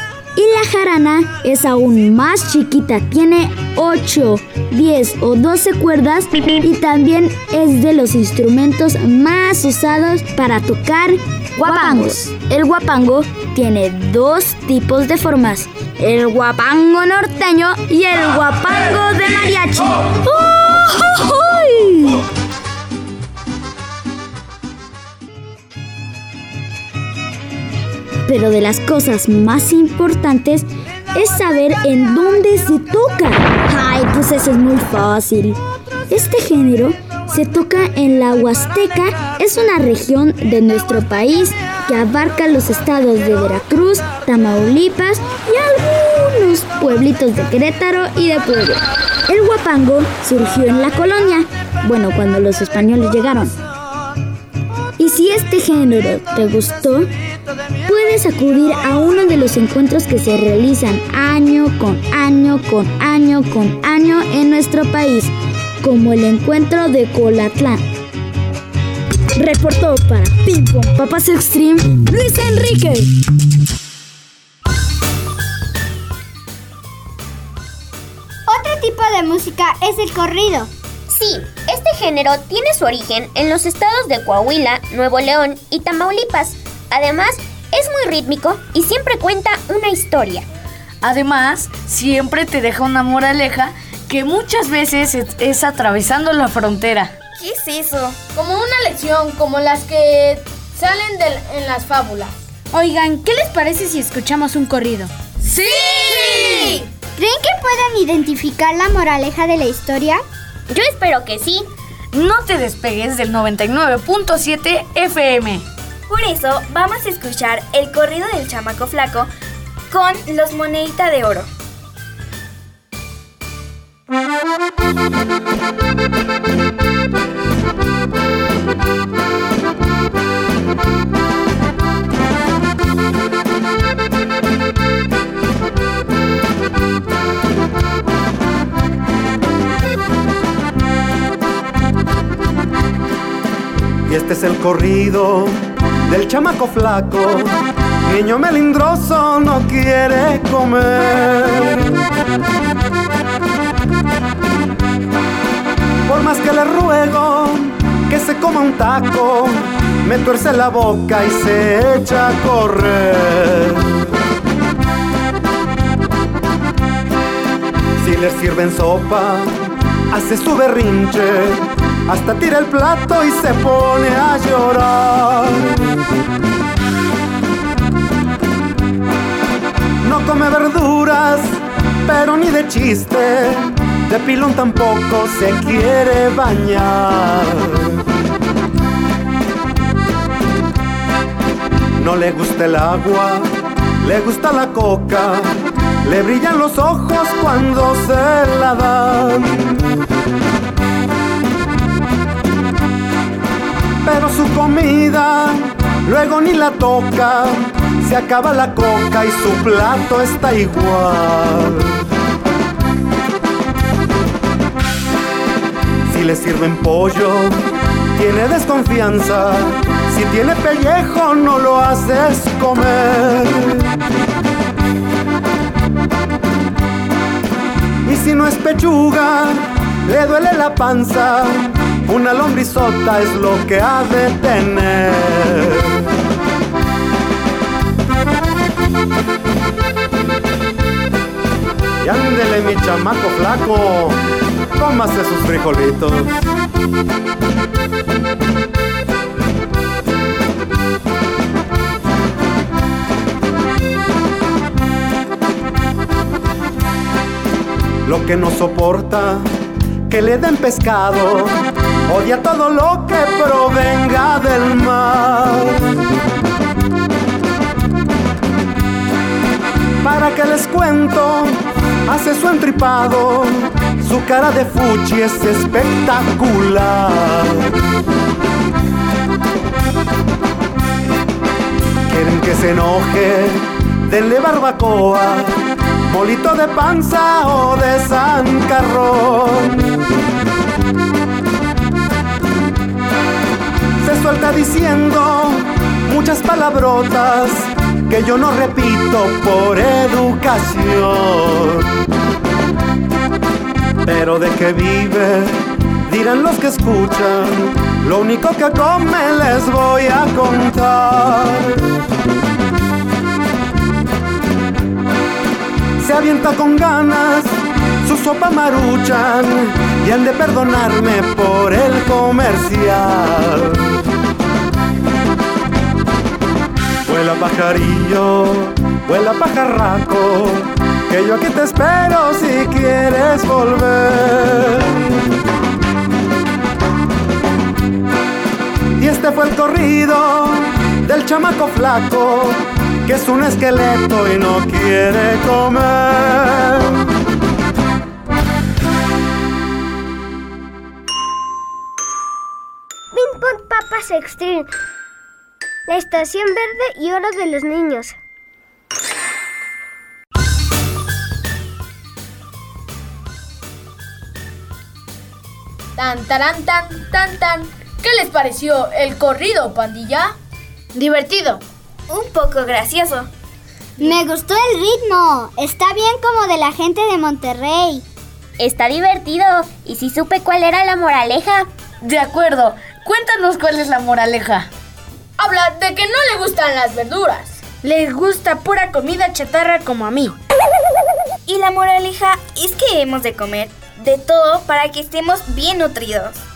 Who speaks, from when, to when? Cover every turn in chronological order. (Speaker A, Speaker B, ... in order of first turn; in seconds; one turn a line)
Speaker A: 0.4-22.2
Speaker A: 28.3-35.6
Speaker A: 36.1-53.6
Speaker A: 55.0-57.1
Speaker A: 57.9-67.8
Speaker A: 69.4-72.1
Speaker B: 72.3-72.9
Speaker C: 78.5-80.7
Speaker D: 81.1-90.5
Speaker B: 91.0-97.1
Speaker E: 97.4-98.2
Speaker F: 98.3-102.4
Speaker G: 102.7-105.1
Speaker F: 105.5-106.8
Speaker E: 105.6-106.8
Speaker C: 107.2-110.2
Speaker D: 110.7-111.7
Speaker B: 112.1-115.6
Speaker E: 116.1-119.3
Speaker E: 119.9-121.5
Speaker H: 144.1-151.9
Speaker H: 156.1-163.9
Speaker H: 168.0-169.6
Speaker H: 170.1-175.8
Speaker H: 180.0-188.0
Speaker H: 192.0-193.5
Speaker H: 194.0-199.8
Speaker H: 204.0-212.0
Speaker H: 216.1-217.6
Speaker H: 218.2-224.0
Speaker H: 228.1-236.0
Speaker H: 242.0-244.2
Speaker H: 244.8-246.4
Speaker H: 258.1-259.5
Speaker H: 260.1-265.9
Speaker H: 270.0-277.7
Speaker H: 282.1-289.9
Speaker H: 294.0-301.9
Speaker H: 304.0-311.8
Speaker H: 316.0-324.0
Speaker H: 327.1-335.0
Speaker H: 339.0-346.9
Speaker I: 353.1-354.7
Speaker I: 355.9-358.2
Speaker F: 366.0-370.4
Speaker G: 370.9-371.5
Speaker E: 372.1-373.3
Speaker C: 374.0-378.0
Speaker D: 378.6-381.7
Speaker B: 382.0-384.7
Speaker F: 385.4-387.6
Speaker G: 387.8-390.4
Speaker E: 391.5-396.4